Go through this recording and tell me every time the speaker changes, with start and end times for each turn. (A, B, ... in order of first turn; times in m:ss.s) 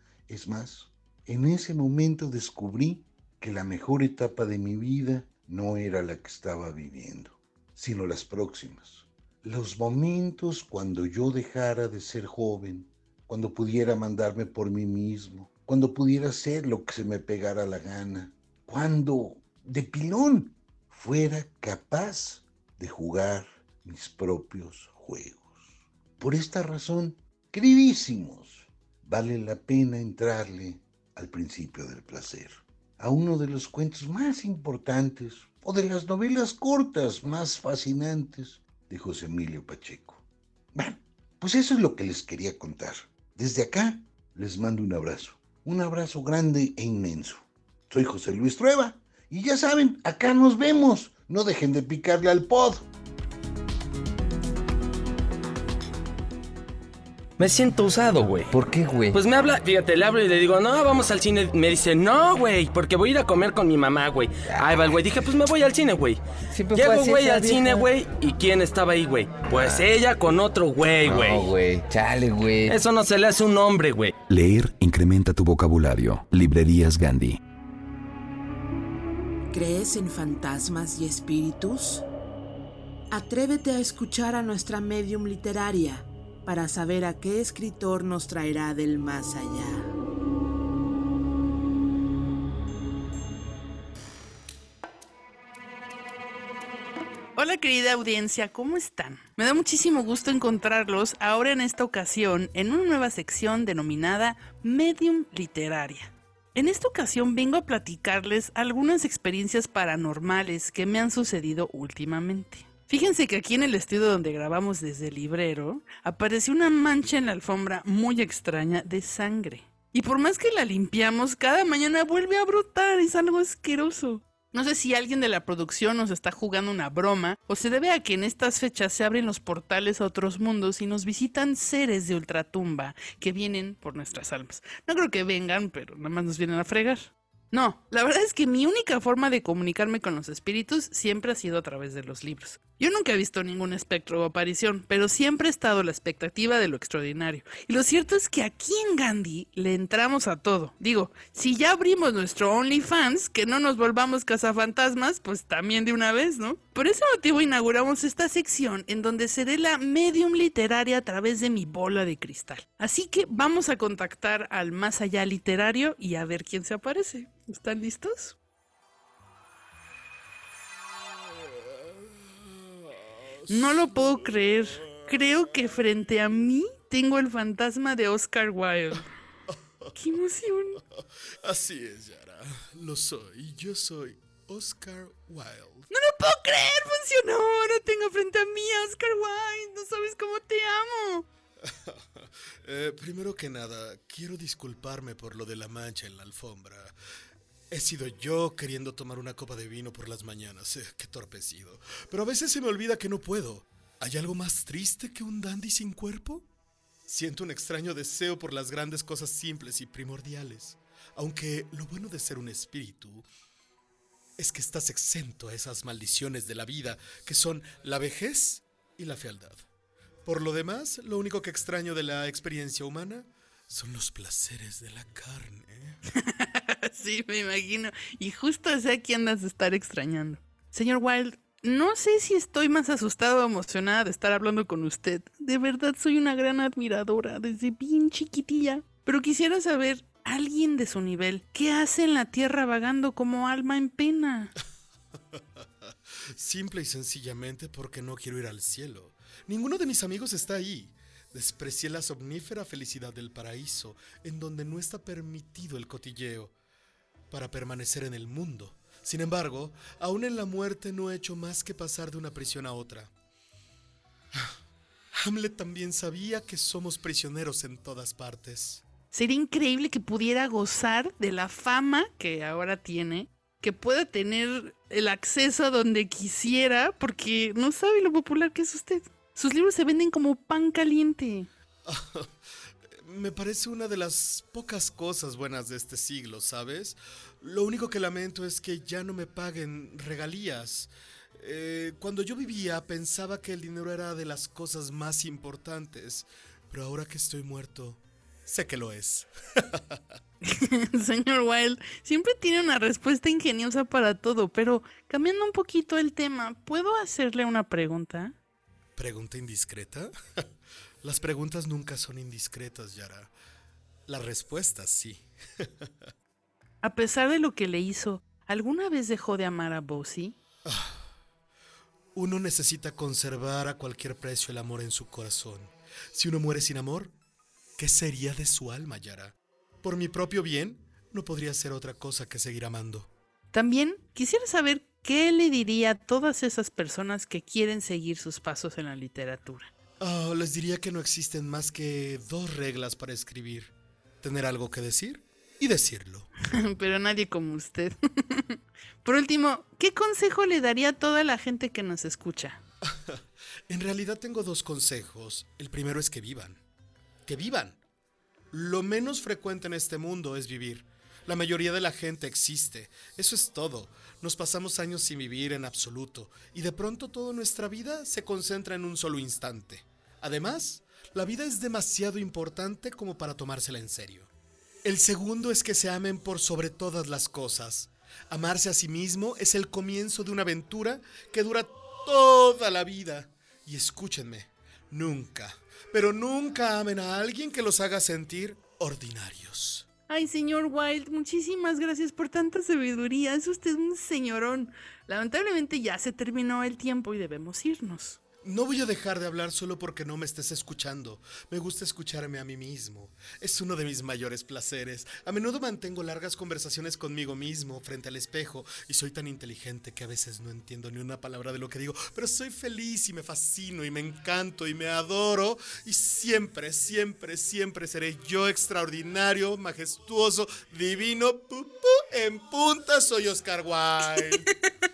0:00.3-0:40.2 A
0:40.8-0:52.9 A
0:57.4-0:58.5 B
0:58.5-0:59.2 C
0:59.1-1:06.2 B
1:04.5-1:05.0 C
1:06.5-1:07.9 C
1:06.7-1:11.5 B
1:11.0-1:12.8 C
1:12.7-1:14.2 B
1:14.3-1:17.4 D
1:19.7-1:21.2 E
1:23.5-1:24.6 E
1:27.0-1:27.9 E
1:37.4-2:48.4 F
2:51.7-2:55.1 G
2:53.5-2:59.1 F
3:00.0-3:00.8 F
3:01.0-3:05.9 G
3:05.9-3:11.2 F
3:11.6-3:17.0 G
3:17.7-3:26.5 G
3:27.1-3:33.2 G
3:34.4-3:39.6 G
3:40.2-3:46.0 G
3:46.2-4:04.5 F
4:06.4-4:16.5 G
4:17.3-4:23.1 G
4:25.2-4:28.8 G
4:29.1-4:41.5 F
4:41.8-4:42.4 G
4:42.9-4:59.8 G
5:00.4-5:08.4 F
5:09.0-5:10.1 G
5:11.0-5:13.3 G
5:14.1-5:15.9 G
5:16.8-5:20.4 F
5:20.6-5:21.1 G
5:22.1-5:27.2 G
5:27.8-5:33.1 G
5:33.5-5:39.7 F
5:40.0-5:46.3 G
5:46.7-5:48.0 F
5:49.0-5:52.6 F
5:52.9-5:56.6 G
5:57.3-5:57.8 G
5:58.5-6:14.3 G
6:14.8-6:29.9 G
6:30.1-6:38.2 F
6:38.4-7:04.5 G